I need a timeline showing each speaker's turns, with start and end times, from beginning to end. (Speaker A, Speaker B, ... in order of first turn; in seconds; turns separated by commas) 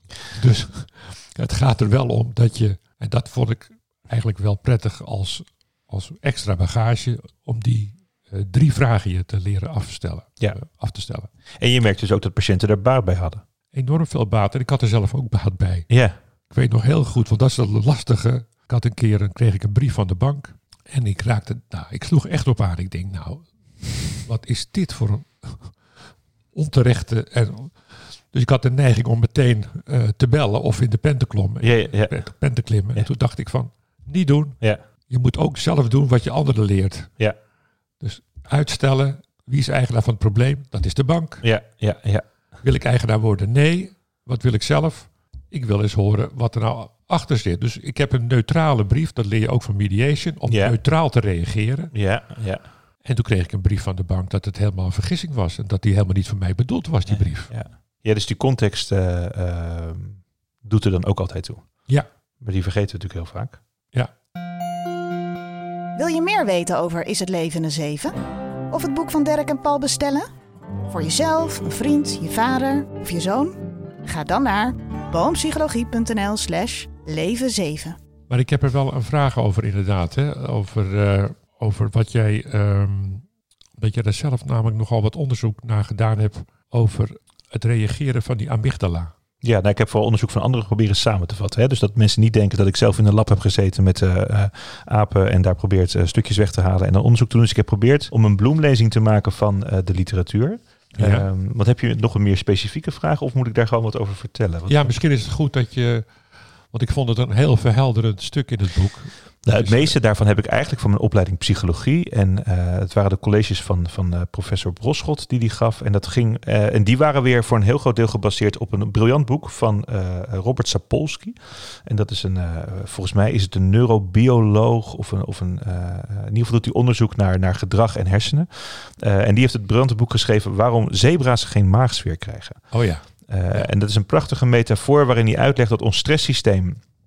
Speaker A: 0.3-11.3, Speaker B: 11.6-13.4, Speaker A: 13.7-37.1, Speaker B: 15.9-16.2, Speaker B: 31.6-32.1, Speaker A: 38.0-41.5, Speaker B: 41.4-42.2, Speaker A: 42.6-51.9, Speaker B: 50.5-50.8, Speaker B: 51.9-52.6, Speaker A: 53.0-57.5, Speaker B: 57.1-61.9, Speaker B: 62.4-63.6, Speaker C: 66.0-68.2, Speaker C: 68.7-70.3, Speaker C: 70.9-78.0, Speaker A: 78.3-83.2, Speaker A: 83.8-89.1, Speaker B: 89.4-104.9, Speaker A: 101.0-101.3, Speaker A: 104.7-106.2, Speaker A: 106.7-110.0, Speaker B: 109.4-132.6, Speaker A: 132.7-133.7, Speaker B: 133.3-136.8